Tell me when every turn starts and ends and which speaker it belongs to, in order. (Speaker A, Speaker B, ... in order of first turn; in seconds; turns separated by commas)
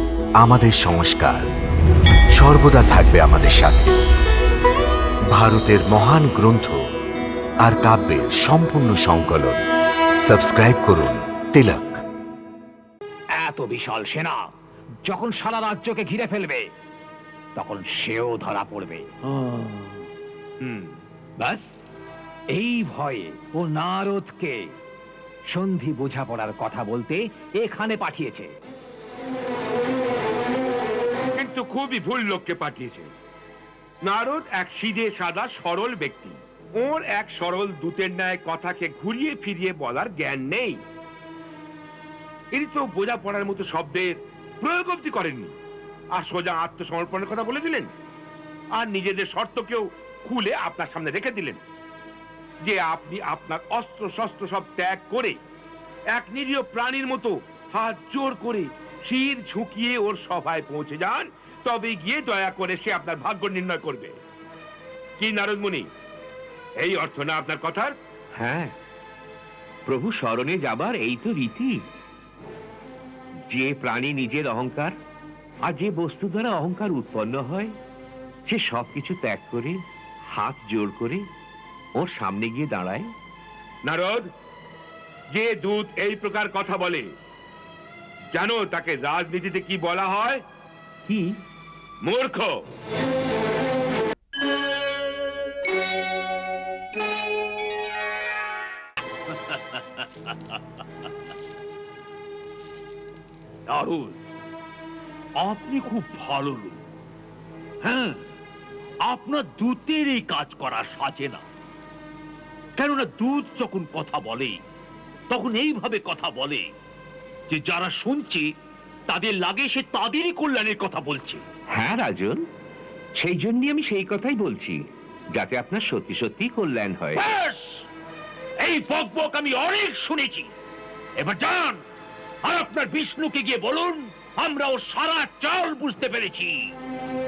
Speaker A: 0.4-1.5, Speaker A: 2.4-4.0, Speaker A: 5.3-6.8, Speaker A: 7.6-9.6, Speaker A: 10.2-12.0, Speaker B: 13.4-14.5, Speaker B: 15.0-16.7, Speaker B: 17.6-19.1, Speaker C: 20.6-21.0, Speaker B: 21.4-21.8, Speaker B: 22.5-24.6, Speaker B: 25.5-28.5, Speaker C: 31.4-33.1, Speaker C: 34.0-40.8, Speaker C: 42.5-45.5, Speaker C: 46.1-47.9, Speaker C: 48.8-51.6, Speaker C: 52.6-55.4, Speaker C: 56.1-64.2, Speaker C: 65.2-65.9, Speaker C: 66.8-67.9, Speaker D: 68.4-68.7, Speaker D: 69.8-71.8, Speaker D: 73.5-74.9, Speaker D: 75.7-77.7, Speaker D: 78.5-79.8, Speaker D: 80.3-81.2, Speaker D: 82.0-83.1, Speaker C: 83.8-84.2, Speaker C: 85.3-87.0, Speaker C: 88.3-90.4, Speaker D: 91.0-91.4, Speaker C: 92.0-92.5, Speaker E: 103.7-104.1, Speaker E: 105.4-106.8, Speaker E: 107.9-108.1, Speaker E: 109.1-111.4, Speaker B: 110.2-110.6, Speaker E: 112.8-114.6, Speaker B: 114.1-114.4, Speaker E: 115.3-116.6, Speaker B: 115.6-116.6, Speaker E: 117.5-118.4, Speaker B: 117.7-118.3, Speaker B: 119.1-121.1, Speaker E: 119.1-121.4, Speaker D: 121.7-122.4, Speaker D: 123.2-124.8, Speaker D: 125.3-127.2, Speaker E: 127.4-127.7, Speaker E: 128.6-130.5, Speaker B: 128.8-130.5, Speaker E: 131.2-131.7, Speaker B: 131.2-131.8, Speaker B: 132.4-136.5, Speaker E: 132.5-133.2, Speaker E: 133.9-136.7